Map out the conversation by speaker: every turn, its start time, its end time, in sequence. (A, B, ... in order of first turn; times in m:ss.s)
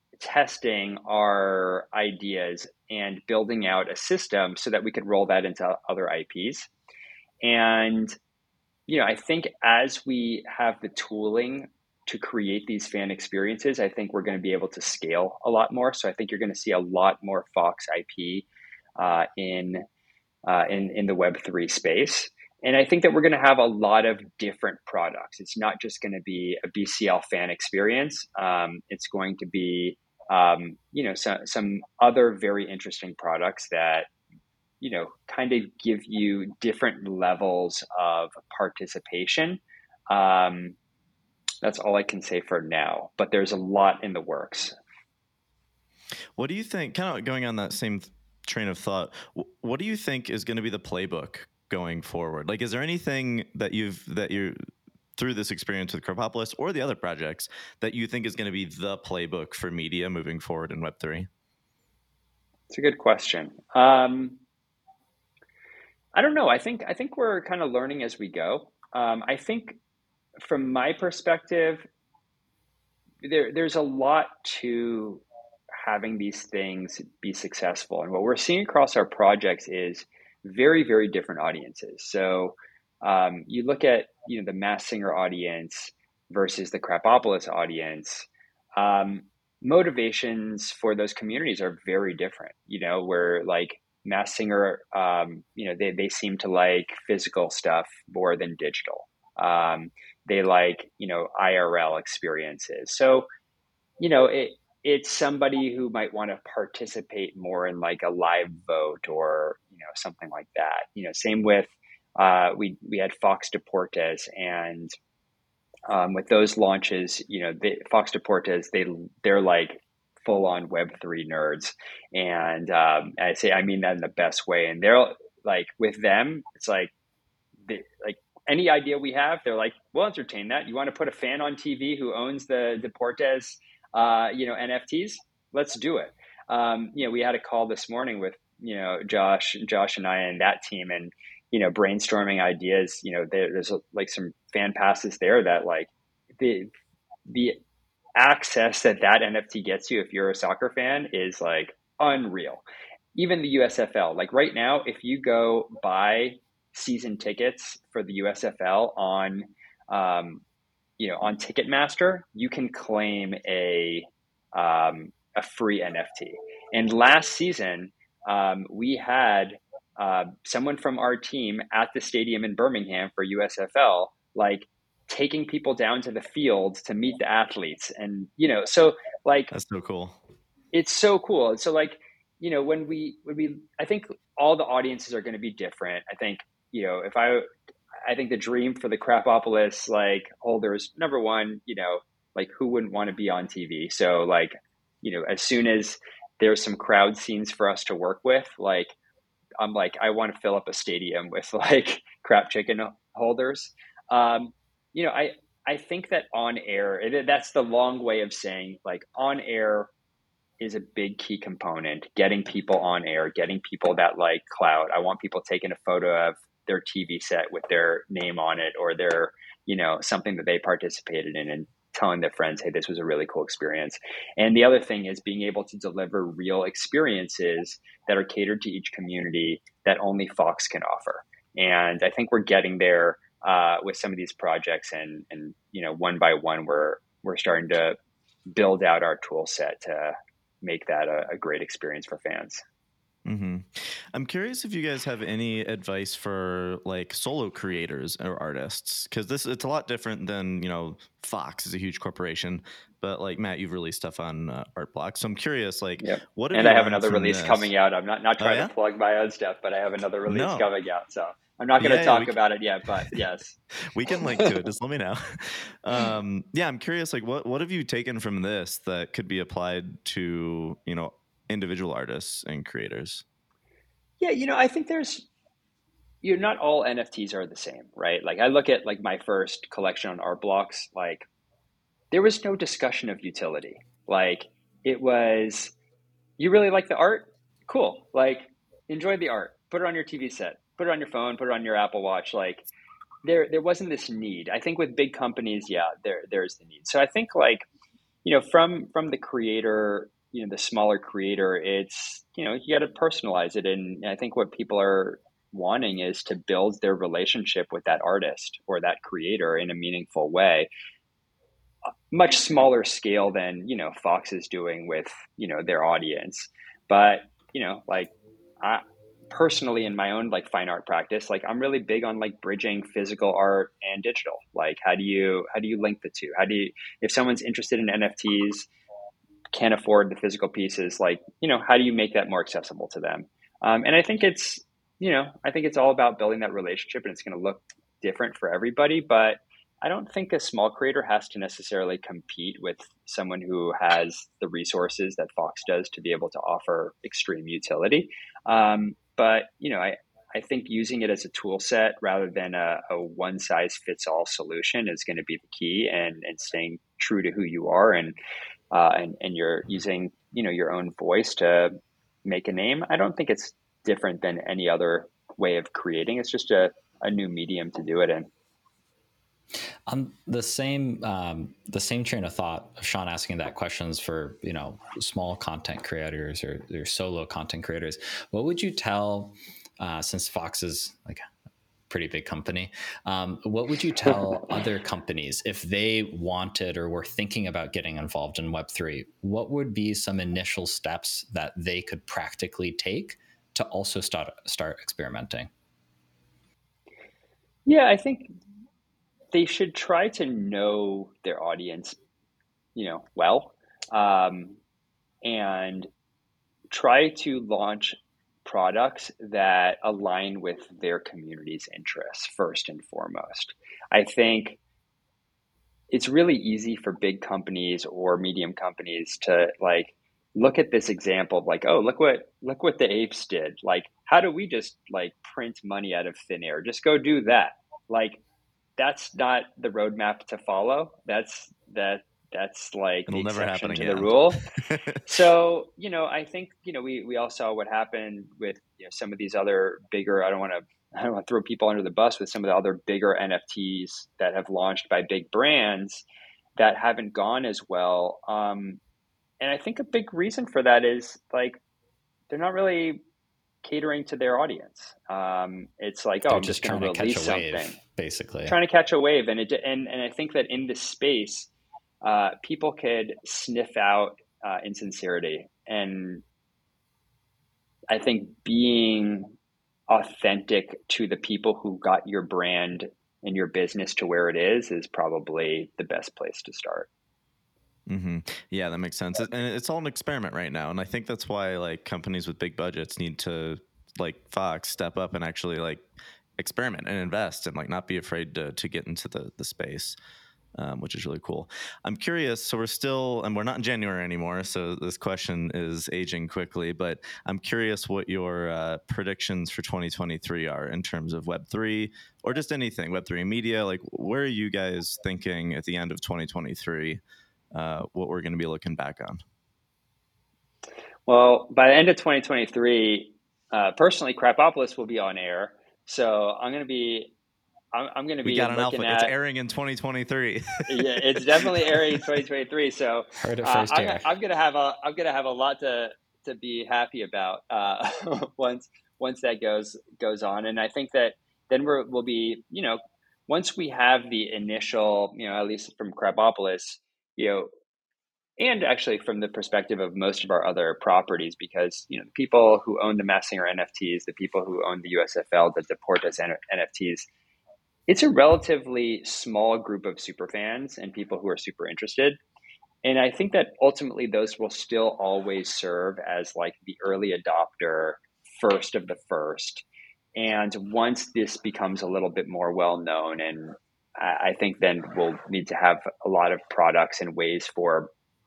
0:00.2-0:06.7 A
0:07.4-0:08.2 A
0:08.9-0:19.8 A
0:20.4-0:34.1 A
0:34.8-0:40.8 A
0:41.6-0:44.8 A
0:46.4-0:54.6 B
0:55.2-1:01.3 B
1:02.7-1:04.4 A
1:06.1-1:09.8 A
1:10.4-1:11.9 A
1:13.2-1:15.2 A
1:15.8-1:43.3 A
1:44.0-1:54.9 A
1:55.9-2:06.9 A
2:07.6-2:26.7 A
2:27.3-2:27.6 A
2:28.2-2:32.6 A
2:33.2-2:40.4 A
2:41.0-2:59.5 A
2:59.5-3:00.2 B
3:00.7-3:07.5 A
3:08.0-3:19.0 A
3:19.6-3:29.9 A
3:30.6-3:58.0 A
3:58.5-4:02.6 A
4:03.2-4:17.7 B
4:16.0-4:23.6 A
4:18.4-4:18.7 B
4:20.3-4:20.7 B
4:21.8-4:22.4 B
4:23.9-4:33.2 B
4:24.2-4:24.5 A
4:34.2-4:35.3 A
4:36.2-4:41.3 A
4:42.1-4:45.8 A
4:46.4-4:52.7 A
4:53.2-4:57.6 A
4:58.2-5:10.7 A
5:12.1-5:28.7 A
5:29.5-5:58.2 A
5:58.7-6:01.7 A
6:02.2-6:08.3 A
6:09.9-6:21.2 C
6:21.9-6:35.5 C
6:37.7-6:38.3 A
6:39.3-6:42.0 A
6:42.8-6:44.6 A
6:45.2-6:45.9 A
6:46.7-6:54.6 A
6:55.9-7:08.2 A
7:08.8-7:14.4 A
7:13.1-7:15.0 B
7:15.1-7:26.0 A
7:26.6-7:28.8 A
7:29.4-7:31.6 A
7:32.3-7:33.0 A
7:33.6-7:37.8 A
7:36.3-7:38.6 C
7:38.5-7:41.5 A
7:42.0-7:46.2 A
7:47.9-7:49.4 A
7:49.9-7:56.9 A
7:57.9-8:05.8 B
8:06.4-8:10.0 B
8:10.6-8:27.0 B
8:27.5-8:29.2 B
8:31.1-8:37.1 A
8:37.7-8:39.1 A
8:38.2-8:42.0 B
8:40.7-8:57.5 A
8:43.2-8:44.1 C
8:58.4-9:07.1 A
9:07.9-9:12.2 A
9:12.8-9:19.6 A
9:20.2-9:27.9 A